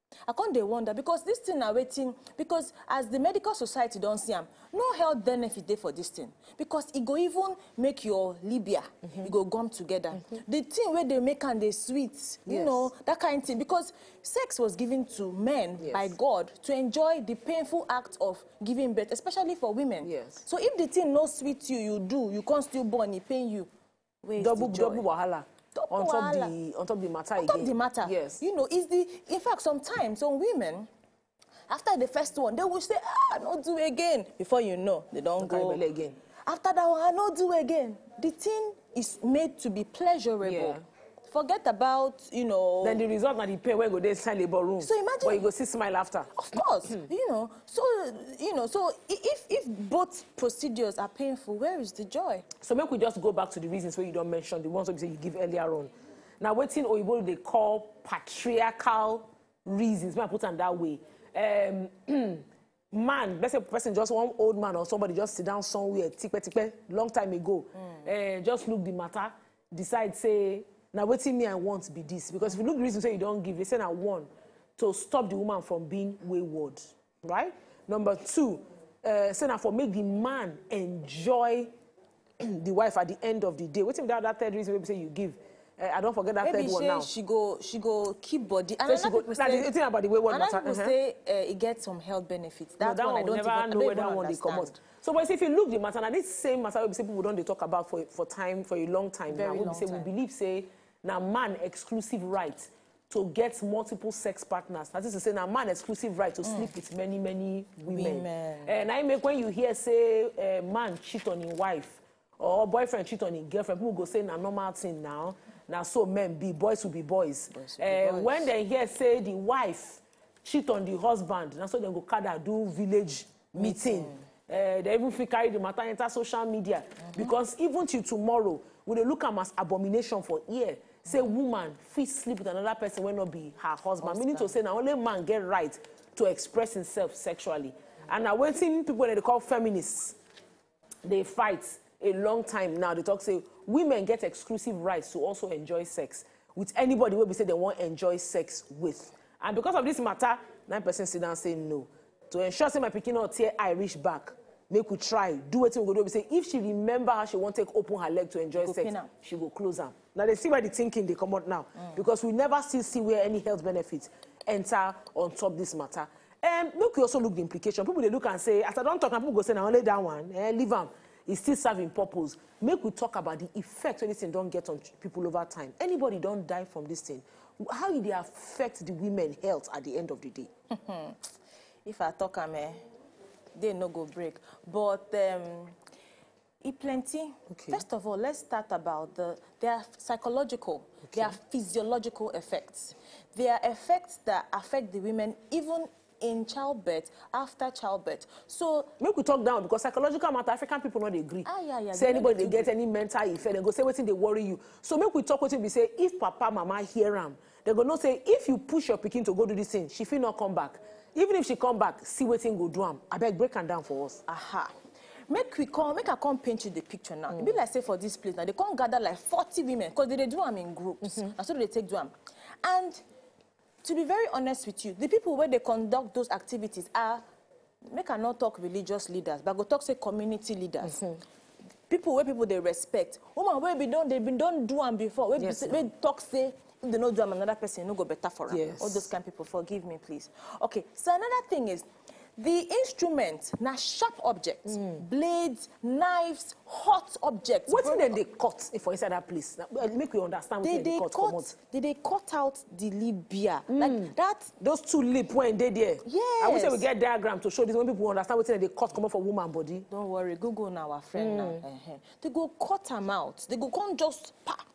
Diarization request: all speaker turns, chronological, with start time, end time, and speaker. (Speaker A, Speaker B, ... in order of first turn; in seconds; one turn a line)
Speaker A: 0.3-23.7
Speaker B: 12.5-12.9
Speaker B: 15.8-16.1
Speaker B: 20.0-20.4
Speaker A: 24.2-25.1
Speaker B: 24.4-28.4
Speaker A: 25.7-26.5
Speaker A: 27.4-30.9
Speaker A: 31.7-35.8
Speaker B: 35.4-36.2
Speaker A: 36.5-43.0
Speaker B: 40.4-40.8
Speaker B: 42.8-46.3
Speaker A: 44.8-45.5
Speaker A: 46.3-52.5
Speaker B: 52.6-81.7
Speaker B: 82.4-87.1
Speaker A: 86.4-89.7
Speaker B: 88.8-91.0
Speaker A: 90.3-94.8
Speaker B: 92.8-140.2
Speaker A: 99.3-100.1
Speaker A: 106.4-106.7
Speaker A: 107.9-108.8
Speaker A: 117.5-118.5
Speaker A: 123.6-124.2
Speaker A: 134.0-134.5
Speaker B: 141.0-180.5
Speaker A: 158.6-159.1
Speaker A: 180.7-181.2
Speaker A: 181.8-182.8
Speaker A: 183.6-185.8
Speaker A: 186.6-198.9
Speaker B: 187.5-187.8
Speaker B: 199.0-214.2
Speaker A: 201.4-202.7
Speaker A: 214.3-214.7
Speaker A: 215.3-223.0
Speaker A: 223.8-227.2
Speaker A: 227.9-231.1
Speaker B: 230.8-231.2
Speaker A: 231.9-241.8
Speaker B: 235.4-235.9
Speaker B: 238.5-239.1
Speaker A: 242.4-248.2
Speaker B: 244.7-245.0
Speaker B: 247.7-251.5
Speaker A: 250.6-254.5
Speaker B: 253.7-259.9
Speaker A: 256.0-256.9
Speaker A: 259.9-264.7
Speaker B: 261.2-261.6